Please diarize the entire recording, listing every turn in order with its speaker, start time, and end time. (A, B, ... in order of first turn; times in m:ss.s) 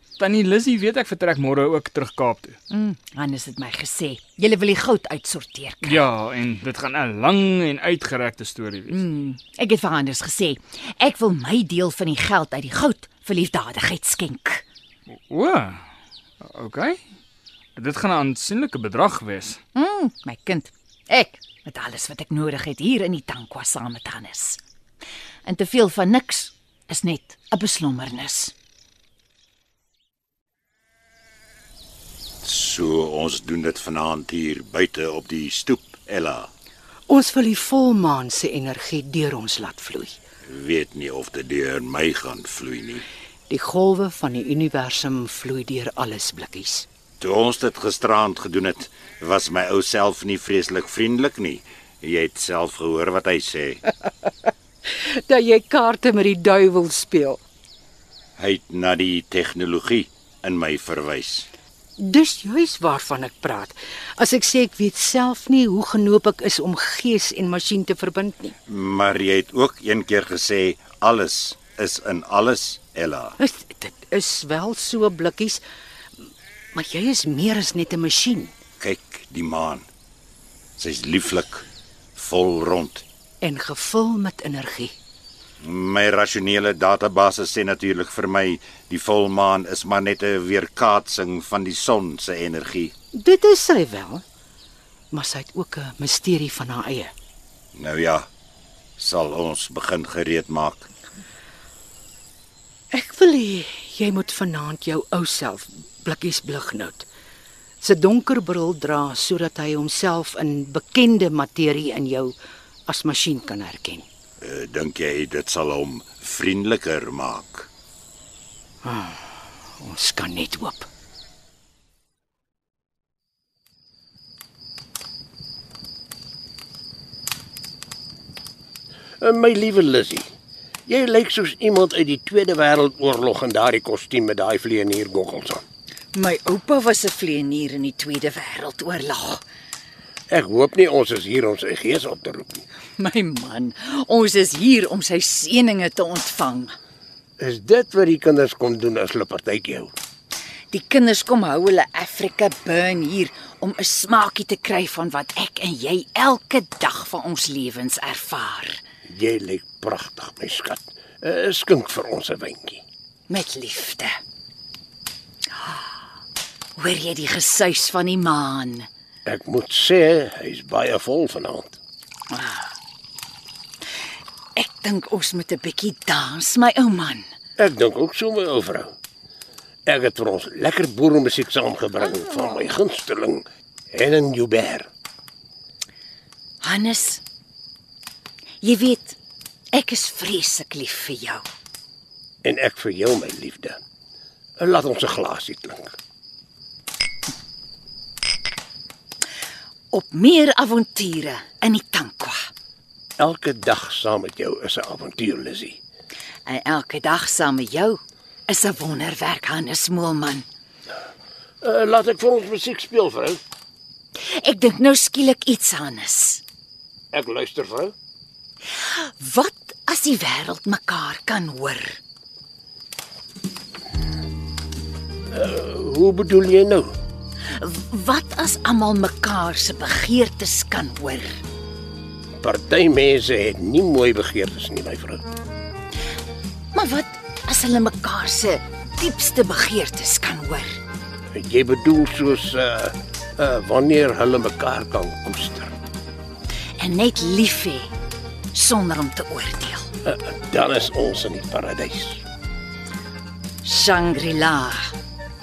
0:00.2-0:02.6 A
0:02.7-0:06.0 B
0:05.8-0:09.0 A
0:08.9-0:14.6 B
0:15.3-0:15.8 A
0:16.4-0:17.0 A
0:17.8-0:19.6 A
0:19.8-0:24.6 B
0:25.4-0:28.5 B
0:32.4-0:36.5 C
0:37.1-0:40.2 D
0:40.5-0:43.1 C
0:43.5-0:46.9 D
0:47.2-0:53.8 C
0:55.3-0:57.4 D
0:58.4-1:01.5 C
1:02.0-1:08.6 D
1:08.7-1:13.4 C
1:13.4-1:15.6 D
1:16.7-1:18.5 D
1:18.8-1:19.9 C
1:20.8-1:23.0 C
1:23.4-1:24.9 D
1:25.6-1:32.9 C
1:33.2-1:34.2 D
1:35.1-1:37.1 D
1:37.8-1:38.3 C
1:39.0-1:40.9 C
1:42.9-1:47.1 D
1:47.8-1:52.4 D
1:52.9-1:54.1 D
1:54.4-1:57.7 C
1:58.8-1:59.2 D
1:59.8-2:00.9 D
2:09.2-2:10.3 E
2:10.9-2:15.6 E
2:16.1-2:19.4 B
2:20.3-2:22.6 E
2:23.0-2:26.7 B
2:27.4-2:30.0 E
2:30.7-2:38.8 B
2:39.1-2:42.8 E
2:43.3-2:44.1 B
2:46.8-2:48.9 B
2:49.2-2:51.8 E
2:52.3-2:52.7 B
2:54.6-2:57.3 B
2:57.6-2:58.9 E
2:59.9-3:04.9 E
3:06.6-3:07.2 B
3:08.6-3:09.2 B
3:09.7-3:11.4 B
3:12.4-3:13.8 E
3:14.6-3:15.9 E
3:19.9-3:22.5 B
3:23.2-3:25.8 E
3:26.4-3:30.4 B
3:31.6-3:33.4 E
3:34.3-3:36.4 B
3:37.1-3:37.9 E
3:38.7-3:42.0 B
3:45.3-3:46.9 E
3:47.6-3:51.4 B
3:52.4-3:55.2 E
3:56.7-4:00.8 B
4:01.3-4:05.7 E
4:06.8-4:07.9 B
4:08.5-4:09.9 B
4:10.0-4:12.2 E
4:13.6-4:14.9 B